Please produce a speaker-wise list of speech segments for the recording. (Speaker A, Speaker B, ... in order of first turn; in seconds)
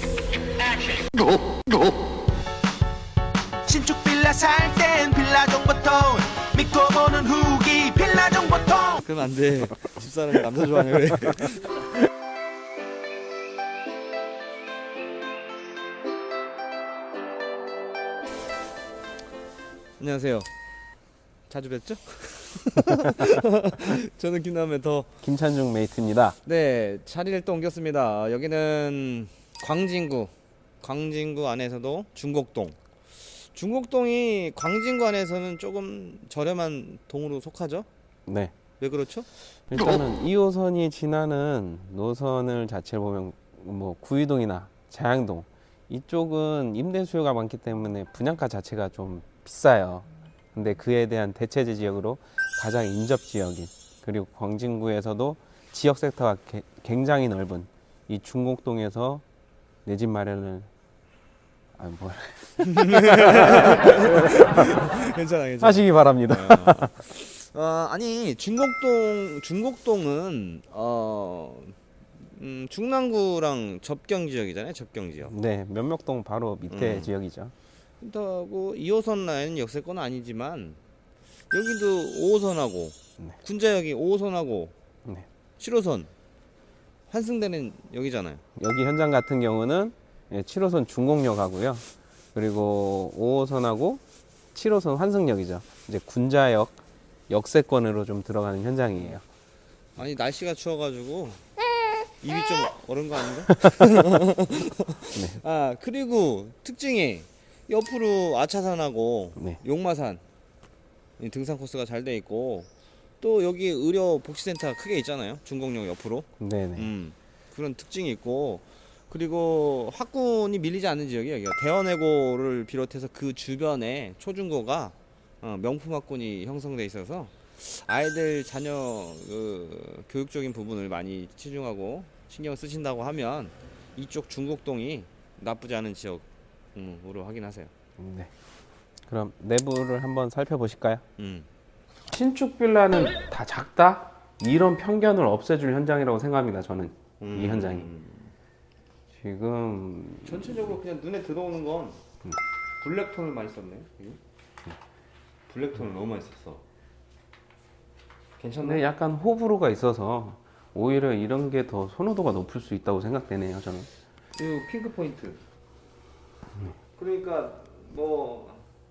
Speaker A: 3.6-9.0
Speaker B: 8.9-11.9, 20.0-20.5, 21.5-25.1, 26.4-37.9, 38.8-39.3, 62.6-75.3, 76.7-77.1, 78.0-80.8, 81.5-84.7, 85.6-86.1, 87.1-88.4, 100.0-101.4, 102.2-110.2, 111.2-112.7, 113.2-137.7, 141.2-141.5, 147.2-148.3, 150.2-152.0, 152.8-154.2, 155.5-156.6, 158.4-158.8, 164.3-165.4, 166.9-168.6
Speaker C: 25.2-26.4, 38.3-38.5, 39.7-59.2, 59.8-60.7, 61.8-64.6, 65.6-67.0, 75.2-77.5, 88.6-94.0, 94.5-96.8, 97.3-99.2, 105.1-105.4, 116.4-116.9, 138.0-138.3, 139.1-141.0, 142.1-147.9, 149.1-150.7, 158.6-163.9